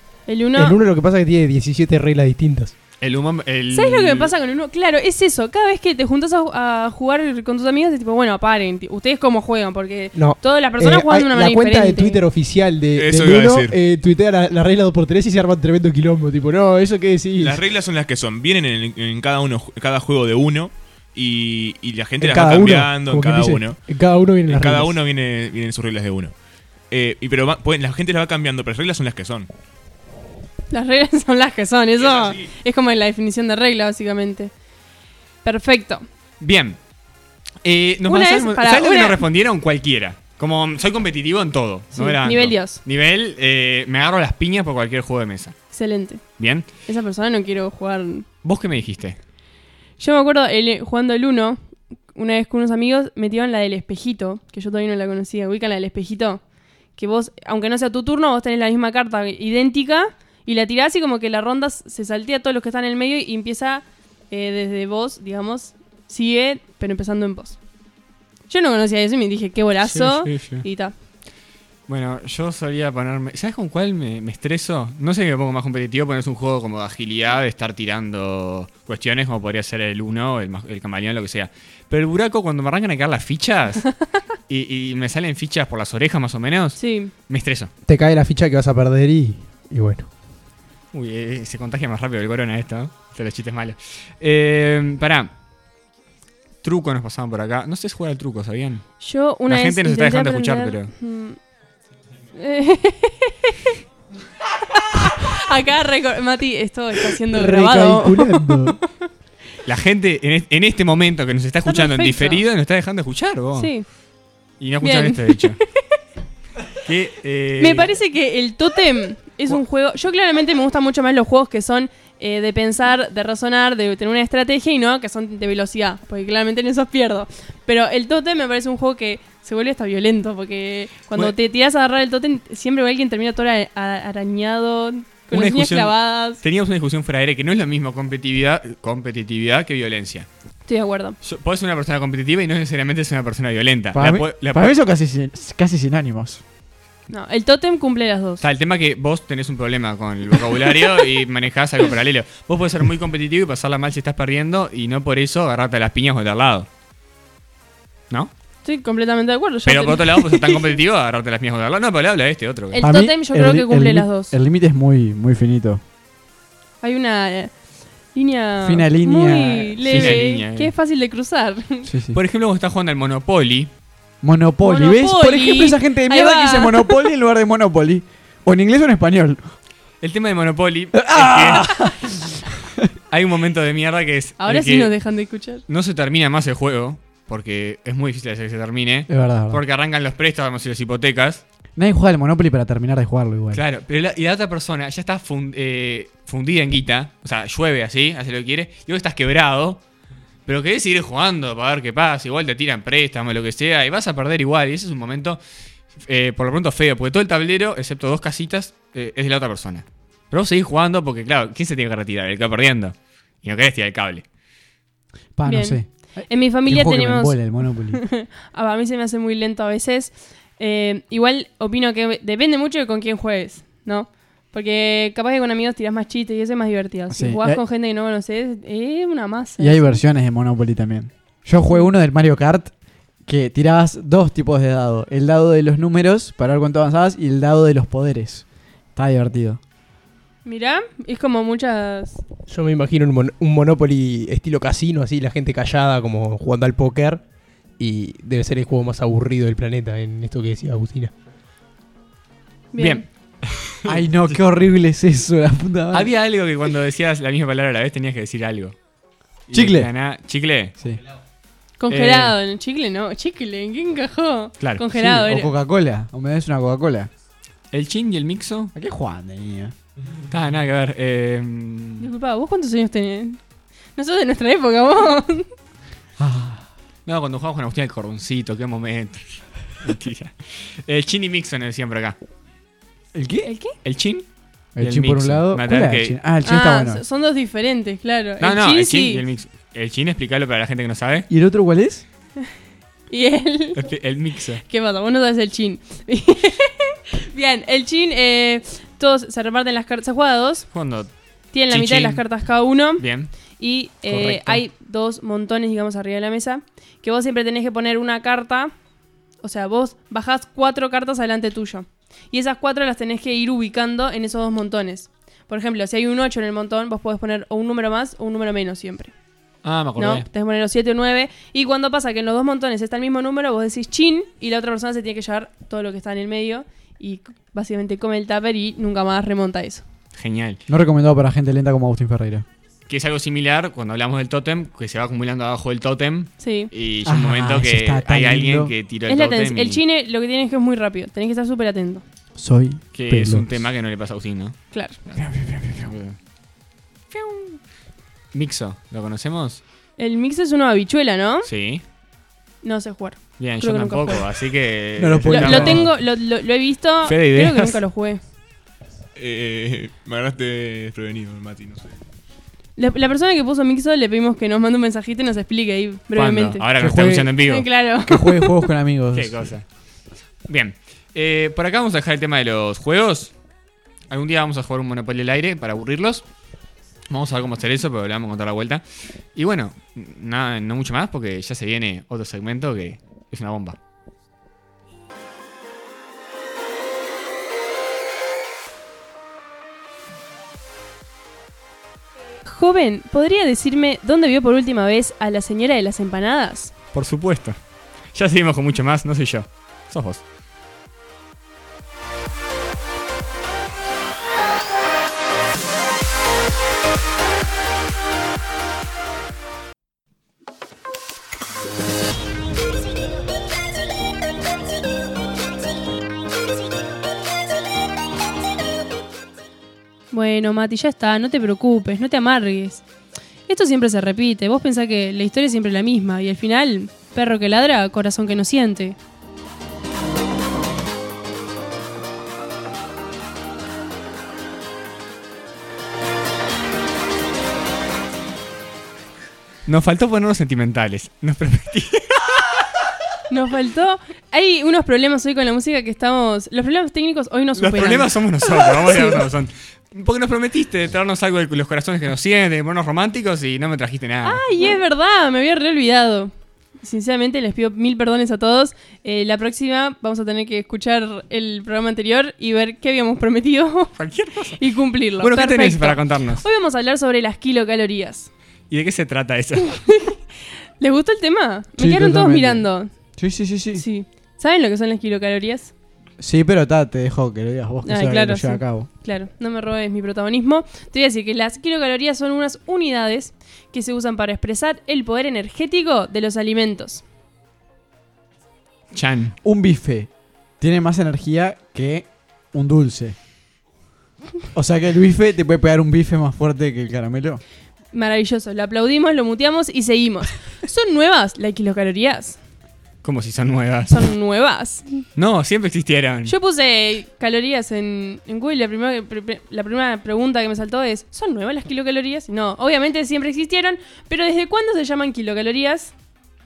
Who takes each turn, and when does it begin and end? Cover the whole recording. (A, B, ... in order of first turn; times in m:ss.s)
0:00.3-0:00.8 A
0:00.6-0:02.7 B
0:03.0-0:04.3 C
0:03.7-0:12.2 A
0:10.1-0:17.6 B
0:12.9-0:13.8 D
0:17.4-0:23.8 D
0:22.2-0:25.0 B
0:24.4-0:26.3 D
0:26.9-0:29.5 D
0:30.7-0:34.5 A
0:32.1-0:32.4 D
0:35.4-0:36.0 A
0:36.4-0:36.8 C
0:37.6-0:45.6 C
0:38.0-0:39.2 A
0:41.9-0:42.8 A
0:45.7-0:46.2 A
0:46.4-0:46.7 C
0:46.8-0:48.2 A
0:48.4-0:49.2 C
0:50.0-0:51.6 A
0:52.1-0:56.4 A
0:57.0-1:07.6 A
1:08.5-1:10.9 A
1:09.8-1:10.6 C
1:11.9-1:23.9 C
1:24.5-1:27.7 C
1:26.8-1:27.1 A
1:27.8-1:30.1 B
1:30.9-1:35.3 C
1:36.6-1:38.9 C
1:39.0-1:41.4 A
1:39.5-1:40.9 C
1:42.3-1:43.7 A
1:44.7-1:49.1 A
1:47.3-1:48.8 B
1:49.6-1:53.7 C
1:51.6-1:52.4 A
1:53.6-1:53.8 A
1:54.6-1:55.6 C
1:54.8-1:55.6 A
1:56.8-1:57.9 C
1:57.6-2:16.4 A
2:15.3-2:20.3 C
2:20.7-2:21.2 A
2:21.2-2:24.7 C
2:23.9-2:26.4 E
2:27.1-2:28.4 A
2:28.4-2:36.7 C
2:38.6-2:40.7 A
2:39.6-2:42.8 C
2:42.7-2:44.3 A
2:42.8-2:45.8 E
2:46.8-2:47.5 A
2:48.1-2:51.9 A
2:48.6-2:50.2 E
2:49.9-2:50.7 C
2:51.8-2:52.2 E
2:52.1-2:53.7 C
2:54.2-2:59.5 E
2:54.6-2:57.1 A
3:00.0-3:01.9 C
3:00.9-3:02.9 E
3:03.1-3:04.9 C
3:04.4-3:05.6 A
3:05.7-3:11.4 C
3:09.1-3:09.6 E
3:11.8-3:13.6 E
3:13.5-3:19.8 C
3:20.4-3:25.4 C
3:26.0-3:34.2 C
3:35.4-3:38.0 E
3:35.4-3:50.0 A
3:47.1-3:47.6 E
3:49.6-3:52.7 E
3:53.2-3:59.6 E
4:00.4-4:02.2 A
4:02.5-4:07.2 B
4:07.8-4:11.1 B
4:12.7-4:13.0 A
4:12.8-4:14.4 C
4:13.8-4:16.1 E
4:15.9-4:18.8 C
4:19.5-4:20.7 C
4:19.5-4:19.9 E
4:21.8-4:25.5 A
4:21.9-4:22.3 C
4:24.9-4:27.1 E
4:27.7-4:28.7 C
4:28.7-4:29.7 E
4:30.3-4:32.1 C
4:32.0-4:33.4 A
4:34.0-4:35.5 A
4:36.2-4:36.6 E
4:37.0-4:42.2 C
4:43.1-4:43.5 E
4:43.4-4:43.7 A
4:43.8-4:44.2 C
4:44.8-4:47.0 E
4:44.8-4:46.2 C
4:46.4-4:49.2 A
4:48.4-4:51.3 C
4:51.3-4:52.0 E
4:53.1-4:53.8 A
4:53.7-4:54.6 C
4:54.7-5:00.7 A
5:00.7-5:01.1 C
5:01.5-5:08.7 A
5:01.7-5:03.3 C
5:04.1-5:04.6 C
5:09.4-5:19.1 A
5:19.6-5:20.2 C
5:20.0-5:29.8 A
5:30.1-5:30.6 C
5:30.7-5:32.4 E
5:32.9-5:39.8 C
5:36.4-5:36.7 A
5:37.0-5:38.7 E
5:39.1-5:42.0 A
5:42.4-5:43.5 E
5:42.9-5:45.2 C
5:44.7-5:45.0 A
5:45.2-5:45.9 E
5:45.8-5:46.2 C
5:47.1-5:47.6 C
5:48.3-5:49.6 C
5:50.0-5:51.5 A
5:51.4-5:51.8 C
5:52.6-5:54.2 A
5:53.4-5:55.9 C
5:55.0-5:55.9 E
5:55.3-5:58.2 A
5:57.0-5:57.8 C
5:59.2-6:01.9 D
6:02.8-6:06.6 A
6:06.1-6:07.7 C
6:06.8-6:07.4 E
6:07.4-6:08.7 A
6:08.0-6:09.5 E
6:09.1-6:09.6 C
6:10.5-6:13.3 C
6:14.1-6:16.2 C
6:17.1-6:18.8 C
6:19.3-6:23.8 C
6:32.4-6:36.7 A
6:36.9-6:37.6 C
6:38.1-6:40.2 C
7:00.1-7:02.8 A
7:03.5-7:09.0 A
7:19.6-7:22.5 C
7:23.3-7:29.2 A
7:27.6-7:34.4 C
7:34.2-7:43.9 A
7:44.0-7:44.6 C
7:44.6-7:48.3 A
7:45.2-7:46.4 C
7:48.7-7:49.9 C
7:49.8-7:50.2 A
7:50.8-7:52.9 A
7:51.8-7:53.8 E
7:53.7-7:55.7 A
7:56.2-7:58.9 E
7:57.8-8:07.0 A
8:08.9-8:09.3 C
8:09.4-8:13.2 E
8:14.5-8:17.4 E
8:17.9-8:22.4 A
8:23.0-8:24.0 C
8:23.9-8:25.0 A
8:25.2-8:26.3 C
8:26.2-8:35.9 A